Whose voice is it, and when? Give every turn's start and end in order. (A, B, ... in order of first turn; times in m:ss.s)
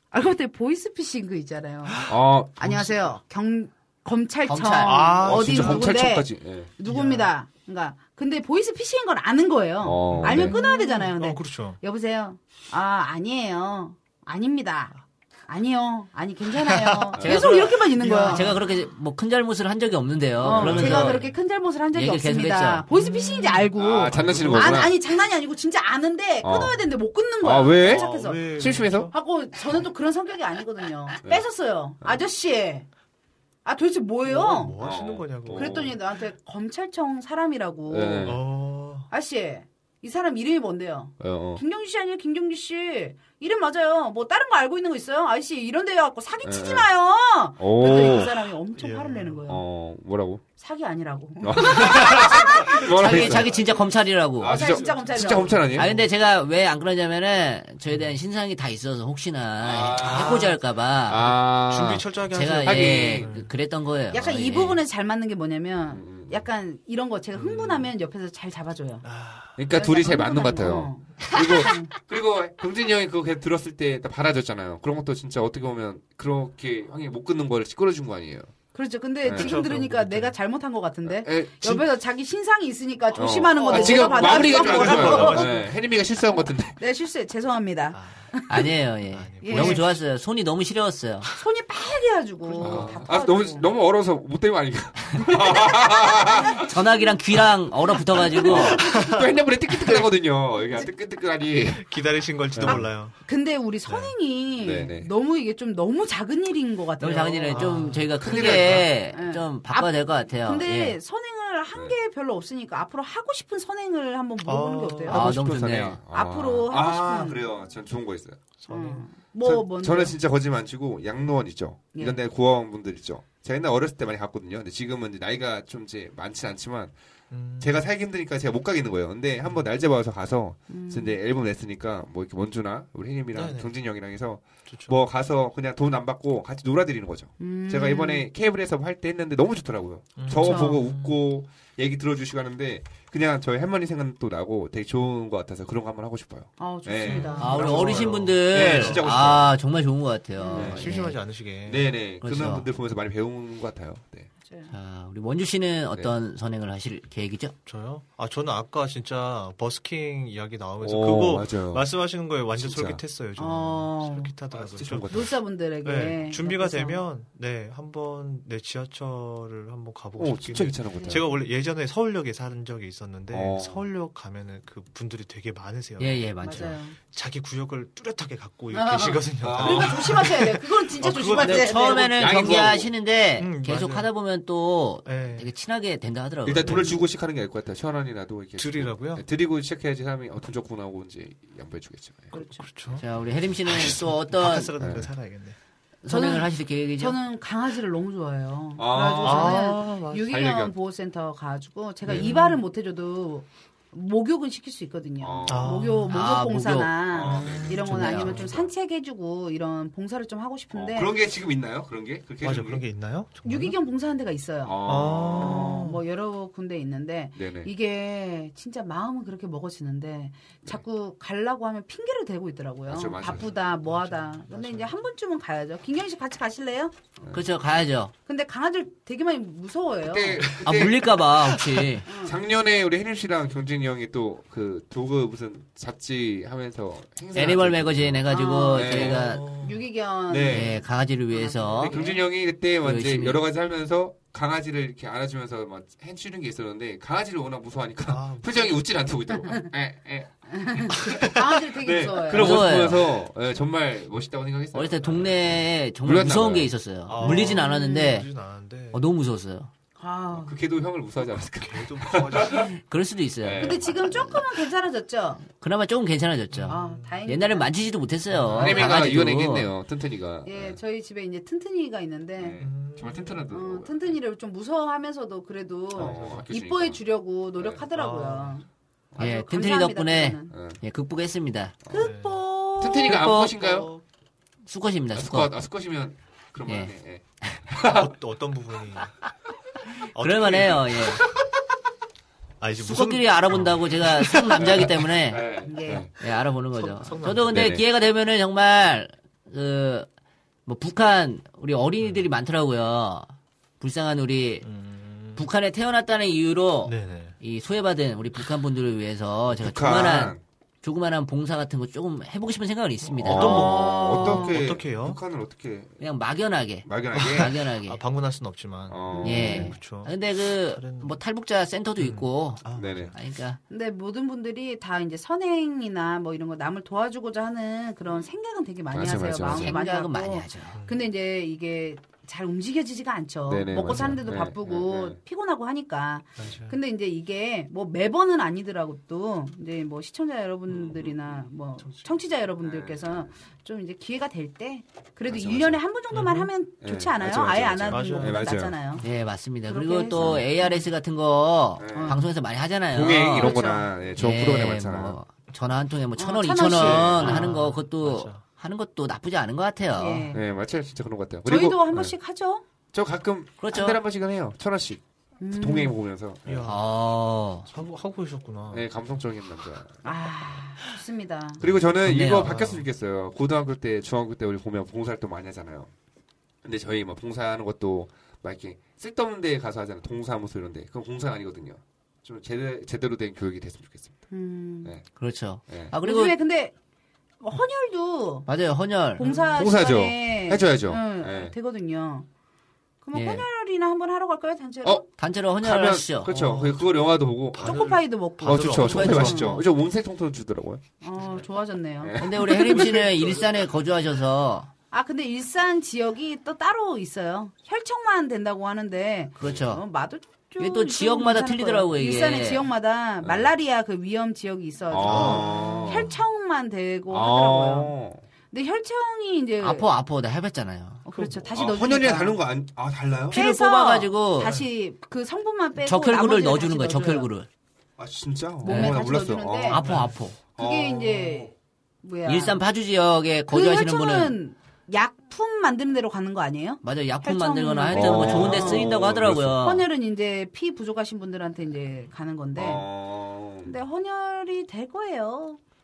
0:00.1-0:18.6 A
0:01.8-0:02.2 B
0:02.1-0:02.9 C
0:04.4-0:05.1 D
0:04.8-0:06.0 B
0:05.2-0:06.7 C
0:06.8-0:07.3 B
0:09.8-0:10.6 C
0:10.1-0:11.8 B
0:16.5-0:18.7 B
0:17.2-0:17.7 C
0:17.2-0:21.2 D
0:20.4-0:32.9 A
0:20.4-0:21.3 B
0:20.5-0:21.2 C
0:21.9-0:22.8 D
0:22.9-0:24.9 B
0:23.8-0:24.9 C
0:26.4-0:26.9 C
0:27.4-0:29.1 C
0:27.8-0:29.1 B
0:33.6-0:34.8 A
0:34.2-0:36.0 B
0:34.8-0:36.0 C
0:35.5-0:38.4 A
0:37.9-0:38.4 C
0:38.2-0:39.1 B
0:39.1-0:49.6 A
0:41.2-0:41.6 C
0:46.4-0:46.9 C
0:47.6-0:48.5 C
0:48.8-0:49.4 B
0:49.5-0:50.4 C
0:50.6-0:53.6 A
0:51.4-0:53.5 C
0:52.9-0:54.6 D
0:54.4-0:56.0 C
0:54.4-0:55.6 A
0:55.7-1:01.4 D
0:57.9-0:58.2 B
0:59.6-1:03.3 C
0:59.9-1:00.6 B
1:01.6-1:03.5 B
1:02.3-1:04.8 D
1:04.1-1:09.1 A
1:05.9-1:06.4 C
1:07.3-1:07.9 B
1:09.0-1:09.5 B
1:09.6-1:18.5 C
1:09.7-1:11.9 A
1:18.7-1:25.6 A
1:19.2-1:19.6 C
1:19.3-1:20.4 B
1:21.1-1:21.8 C
1:23.1-1:26.8 C
1:23.6-1:25.7 B
1:26.8-1:28.7 A
1:27.9-1:28.3 B
1:28.5-1:31.3 D
1:29.1-1:29.8 B
1:29.4-1:29.8 A
1:31.4-1:33.7 A
1:32.4-1:33.0 B
1:32.6-1:36.7 C
1:35.3-1:36.6 A
1:36.6-1:38.8 D
1:38.3-1:42.0 C
1:38.4-1:40.0 B
1:41.7-1:43.2 B
1:42.5-1:42.8 C
1:42.6-1:47.7 A
1:43.8-1:44.1 B
1:44.6-1:45.1 C
1:47.0-1:51.0 D
1:47.5-1:48.1 B
1:48.2-1:48.9 C
1:48.4-1:55.3 A
1:54.4-1:55.4 B
1:55.1-1:58.4 C
1:55.1-1:56.0 D
1:56.1-1:57.4 A
1:58.6-1:59.0 B
1:58.7-2:00.2 A
1:59.4-2:06.9 C
2:07.3-2:07.8 B
2:07.6-2:29.5 C
2:10.7-2:11.2 A
2:13.3-2:13.7 B
2:14.7-2:15.0 B
2:17.4-2:18.2 A
2:20.2-2:21.2 B
2:20.4-2:20.8 A
2:26.6-2:28.0 A
2:27.0-2:29.1 B
2:27.4-2:31.2 D
2:30.4-2:30.8 A
2:30.5-2:30.9 C
2:30.5-2:31.9 B
2:31.6-2:34.3 C
2:32.2-2:32.7 D
2:34.7-2:37.5 D
2:37.6-3:02.0 B
2:40.8-2:41.9 C
2:42.6-2:43.0 C
2:43.4-2:44.3 A
2:44.5-2:45.3 C
2:45.1-2:47.0 A
2:50.2-2:51.3 C
2:53.3-2:53.8 C
2:56.0-2:56.8 D
2:56.4-2:57.0 A
2:58.7-3:02.4 A
2:59.4-3:00.3 C
3:01.3-3:07.0 D
3:02.0-3:02.9 C
3:03.4-3:04.1 B
3:05.0-3:05.5 B
3:06.4-3:12.4 C
3:06.6-3:07.0 B
3:08.6-3:09.2 B
3:12.3-3:12.7 A
3:12.5-3:13.0 B
3:13.0-3:14.7 D
3:13.6-3:15.6 B
3:14.8-3:15.1 C
3:16.0-3:17.2 D
3:16.1-3:31.1 A
3:18.8-3:20.7 C
3:19.2-3:20.5 B
3:22.0-3:22.3 C
3:22.1-3:22.6 B
3:25.2-3:25.9 C
3:25.4-3:26.3 B
3:26.1-3:27.1 D
3:27.1-3:28.7 C
3:27.2-3:28.6 B
3:27.7-3:28.4 D
3:30.7-3:32.8 C
3:32.4-3:33.8 B
3:33.4-3:46.9 A
3:34.6-3:35.8 C
3:34.8-3:36.0 B
3:37.4-3:37.7 C
3:42.9-3:43.5 C
3:43.4-3:45.0 B
3:47.3-3:48.1 D
3:48.2-3:50.5 A
3:50.0-3:51.1 C
3:50.6-3:52.1 D
3:51.5-3:51.9 B
3:52.0-3:52.4 A
3:52.2-3:58.2 C
3:57.3-3:59.4 D
3:58.3-4:02.2 A
3:58.7-3:59.3 C
3:58.9-3:59.9 B
4:00.3-4:00.8 C
4:00.5-4:02.0 D
4:01.8-4:16.7 C
4:02.8-4:03.4 D
4:08.1-4:08.8 B
4:10.5-4:12.7 A
4:12.3-4:13.0 D
4:14.7-4:18.3 D
4:17.1-4:19.0 B
4:17.2-4:18.2 A
4:18.9-4:19.7 D
4:20.0-4:20.5 A
4:20.3-4:22.7 C
4:21.5-4:22.7 B
4:22.6-4:24.4 D
4:23.4-4:24.0 C
4:23.6-4:25.4 A
4:25.4-4:29.7 D
4:26.5-4:27.3 B
4:26.7-4:27.7 A
4:28.3-4:28.9 B
4:28.5-4:30.8 C
4:30.4-4:32.7 A
4:32.4-4:34.2 C
4:32.6-4:33.4 B
4:33.5-4:40.5 A
4:35.9-4:37.0 C
4:36.0-4:36.4 B
4:37.6-4:37.8 C
4:37.9-4:38.6 B
4:39.2-4:41.7 D
4:40.5-4:40.8 C
4:41.8-4:42.1 C
4:41.9-4:43.2 A
4:41.9-4:42.4 B
4:42.8-4:43.9 C
4:43.0-4:43.5 D
4:43.5-4:44.0 B
4:44.6-4:45.5 D
4:45.2-4:48.1 C
4:46.7-4:46.9 D
4:47.9-4:49.1 B
4:50.1-4:51.3 B
4:50.1-4:51.2 D
4:52.6-4:54.9 B
4:52.8-4:55.5 D
4:54.6-4:56.1 C
4:55.6-4:56.1 A
4:56.2-5:00.1 D
4:56.7-4:57.8 B
4:57.4-4:57.8 C
5:00.6-5:03.3 D
5:02.0-5:02.3 B
5:03.8-5:04.6 D
5:04.6-5:05.4 B
5:05.4-5:13.7 D
5:06.8-5:07.4 B
5:09.5-5:10.4 C
5:13.1-5:15.2 B
5:13.2-5:16.0 C
5:13.4-5:14.5 A
5:16.0-5:18.0 D
5:16.8-5:17.6 C
5:17.1-5:21.2 B
5:18.9-5:19.7 C
5:19.1-5:19.6 A
5:19.2-5:22.6 D
5:22.0-5:23.2 B
5:22.7-5:23.1 C
5:23.1-5:23.6 D
5:23.7-5:49.0 A
5:28.9-5:29.8 C
5:29.5-5:30.8 D
5:30.7-5:31.0 B
5:33.5-5:35.2 C
5:36.4-5:36.8 B
5:40.7-5:41.2 C
5:42.6-5:43.3 C
5:45.3-5:45.8 C
5:46.1-5:46.5 B
5:46.8-5:49.0 C
5:47.9-5:48.6 B
5:49.0-5:53.6 D
5:49.7-5:50.9 A
5:50.1-5:50.4 C
5:51.8-5:52.2 C
5:51.9-5:52.2 A
5:52.9-5:55.2 C
5:53.3-5:53.9 A
5:54.2-6:00.3 D
5:56.2-5:57.5 A
5:56.7-5:57.4 C
5:57.2-5:58.4 B
5:59.9-6:00.4 A
6:00.3-6:02.1 C
6:01.4-6:02.6 A
6:02.9-6:06.6 C
6:03.6-6:04.0 D
6:05.4-6:05.9 A
6:06.4-6:06.8 B
6:06.6-6:07.7 D
6:07.7-6:08.8 B
6:08.7-6:10.0 C
6:10.0-6:11.6 A
6:11.6-6:15.9 C
6:12.0-6:12.7 D
6:12.4-6:12.8 B
6:16.6-6:24.1 C
6:24.3-6:24.9 A
6:25.2-6:26.4 D
6:25.7-6:25.9 C
6:26.0-6:26.7 A
6:27.4-6:28.5 A
6:28.4-6:29.3 D
6:29.2-6:32.3 A
6:29.2-6:29.5 B
6:29.5-6:31.5 C
6:33.0-6:35.0 A
6:33.1-6:33.4 D
6:35.2-6:36.3 D
6:35.6-6:40.8 C
6:36.2-6:36.9 B
6:37.5-6:39.5 B
6:37.6-6:39.6 A
6:38.9-6:39.6 D
6:41.0-6:43.2 A
6:41.2-6:41.4 B
6:42.0-6:42.9 C
6:42.2-6:44.7 D
6:44.9-6:57.9 A
6:49.4-6:49.8 D
6:50.6-6:52.6 D
6:53.2-6:53.5 C
6:54.9-6:56.1 C
6:55.0-6:56.2 B
6:57.1-6:58.2 C
6:58.5-6:59.9 A
6:59.6-7:01.0 D
7:01.0-7:02.4 A
7:01.1-7:01.5 B
7:01.5-7:03.4 C
7:03.3-7:07.3 A
7:03.3-7:04.6 D
7:05.8-7:07.5 D
7:08.0-7:09.8 C
7:08.6-7:09.8 A
7:08.6-7:09.1 D
7:09.7-7:10.4 D
7:09.8-7:10.1 B
7:10.6-7:11.5 C
7:10.6-7:12.6 A
7:12.2-7:14.4 D
7:13.5-7:19.0 A
7:16.8-7:19.8 D
7:17.9-7:19.6 C
7:19.5-7:22.8 A
7:22.5-7:23.8 C
7:23.6-7:25.6 A